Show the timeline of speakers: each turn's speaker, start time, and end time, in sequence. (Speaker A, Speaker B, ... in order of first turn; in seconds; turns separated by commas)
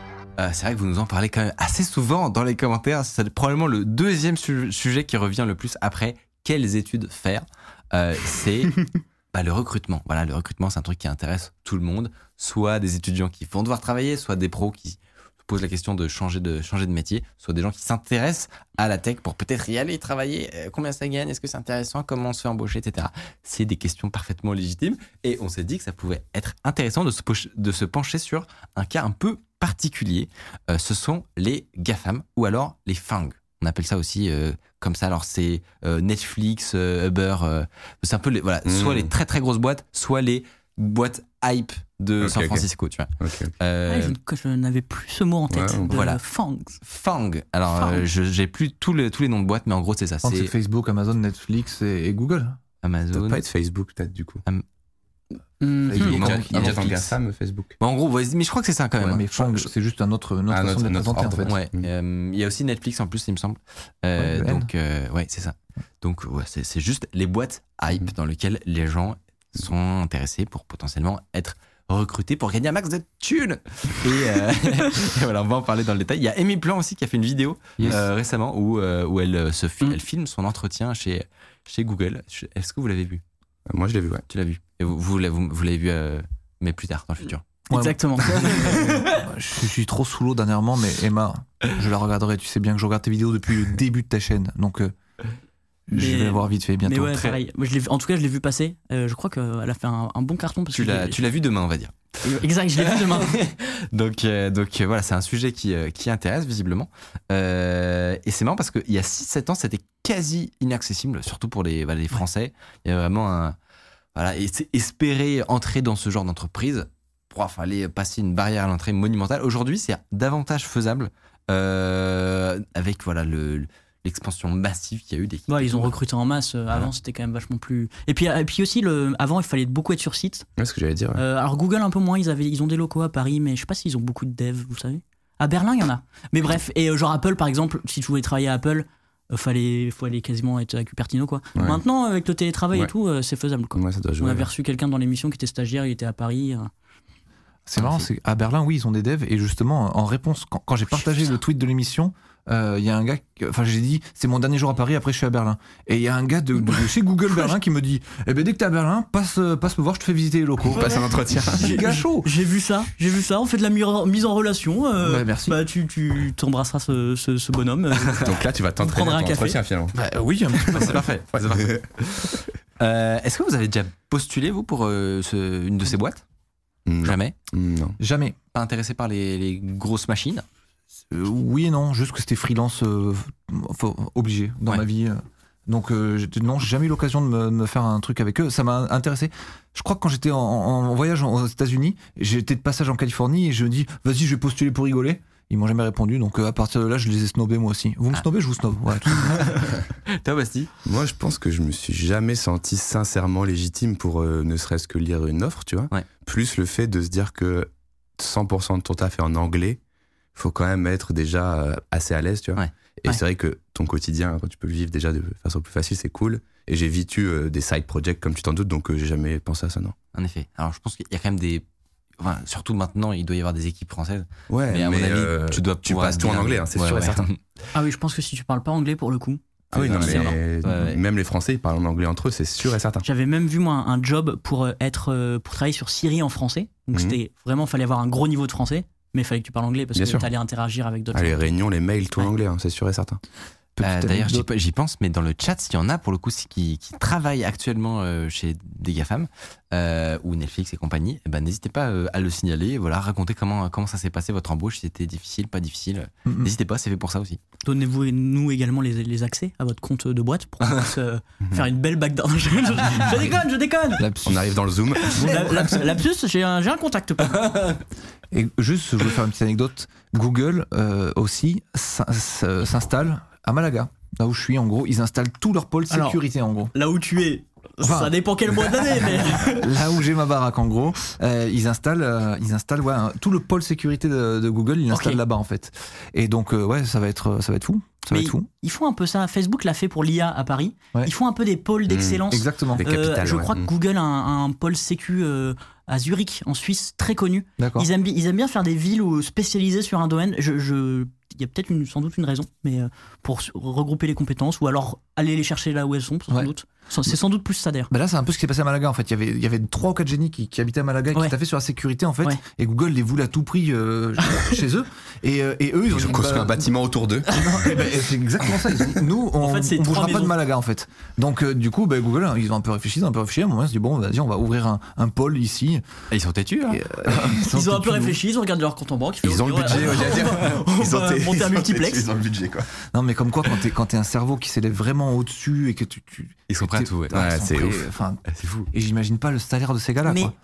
Speaker A: 0.4-44.2, Speaker B: 38.7-39.1, Speaker B: 42.2-42.7, Speaker B: 43.2-43.5, Speaker C: 43.9-46.8, Speaker B: 45.5-46.0, Speaker A: 45.9-46.2, Speaker A: 46.8-50.5, Speaker C: 47.8-48.0, Speaker D: 50.2-52.6, Speaker A: 52.8-53.4, Speaker B: 53.1-54.4, Speaker C: 55.6-56.1, Speaker D: 55.9-57.1, Speaker B: 55.9-57.8, Speaker A: 56.0-57.1, Speaker A: 57.8-59.7, Speaker D: 59.0-61.5, Speaker B: 60.5-61.9, Speaker A: 61.5-83.2, Speaker D: 64.2-64.7, Speaker B: 83.7-84.2, Speaker A: 84.3-87.4, Speaker D: 87.7-94.9, Speaker C: 87.7-89.2, Speaker A: 88.2-88.9, Speaker D: 95.9-97.3, Speaker C: 95.9-101.2, Speaker A: 100.7-102.0, Speaker C: 102.2-103.4, Speaker A: 102.8-113.6, Speaker A: 114.2-125.9, Speaker C: 125.5-130.5, Speaker B: 130.6-131.2, Speaker C: 131.2-146.7, Speaker B: 141.6-141.8, Speaker B: 143.7-144.5, Speaker D: 147.7-162.3, Speaker A: 147.8-148.1, Speaker B: 160.7-161.8, Speaker C: 161.6-169.6, Speaker D: 165.0-165.6, Speaker B: 168.1-170.0, Speaker D: 169.9-171.1, Speaker B: 170.6-171.8, Speaker A: 170.7-176.2, Speaker B: 176.9-178.0, Speaker A: 177.0-177.3, Speaker D: 178.0-178.4, Speaker A: 178.5-180.4, Speaker D: 181.1-199.7, Speaker A: 200.1-200.7, Speaker B: 200.8-209.8, Speaker B: 210.4-219.9, Speaker A: 220.1-221.7, Speaker A: 222.2-227.4, Speaker B: 224.5-227.3, Speaker C: 227.7-230.4, Speaker B: 229.7-233.1, Speaker A: 229.7-231.0, Speaker C: 233.0-241.5, Speaker B: 236.9-237.2, Speaker B: 239.9-240.3, Speaker B: 241.1-243.2, Speaker D: 243.8-244.5, Speaker A: 243.8-257.4, Speaker D: 256.3-256.5, Speaker C: 257.6-264.1, Speaker D: 264.0-264.6, Speaker B: 264.2-265.6, Speaker D: 265.2-265.8, Speaker C: 265.2-267.5, Speaker A: 267.3-267.8, Speaker D: 268.3-276.7, Speaker C: 275.9-276.2, Speaker C: 276.7-279.7, Speaker D: 277.8-278.1, Speaker D: 279.4-288.5, Speaker C: 284.9-285.2, Speaker C: 288.1-307.9, Speaker B: 291.9-293.7, Speaker D: 292.3-292.8, Speaker D: 297.6-297.9, Speaker D: 307.9-316.7, Speaker B: 315.9-317.4, Speaker C: 317.3-317.8, Speaker D: 317.3-325.8, Speaker C: 319.4-320.4, Speaker A: 326.1-326.8, Speaker D: 326.7-328.2, Speaker C: 327.4-332.1, Speaker B: 329.2-332.7, Speaker D: 332.9-340.3, Speaker A: 336.5-337.3, Speaker B: 337.1-337.9, Speaker A: 338.3-338.7, Speaker C: 340.1-340.3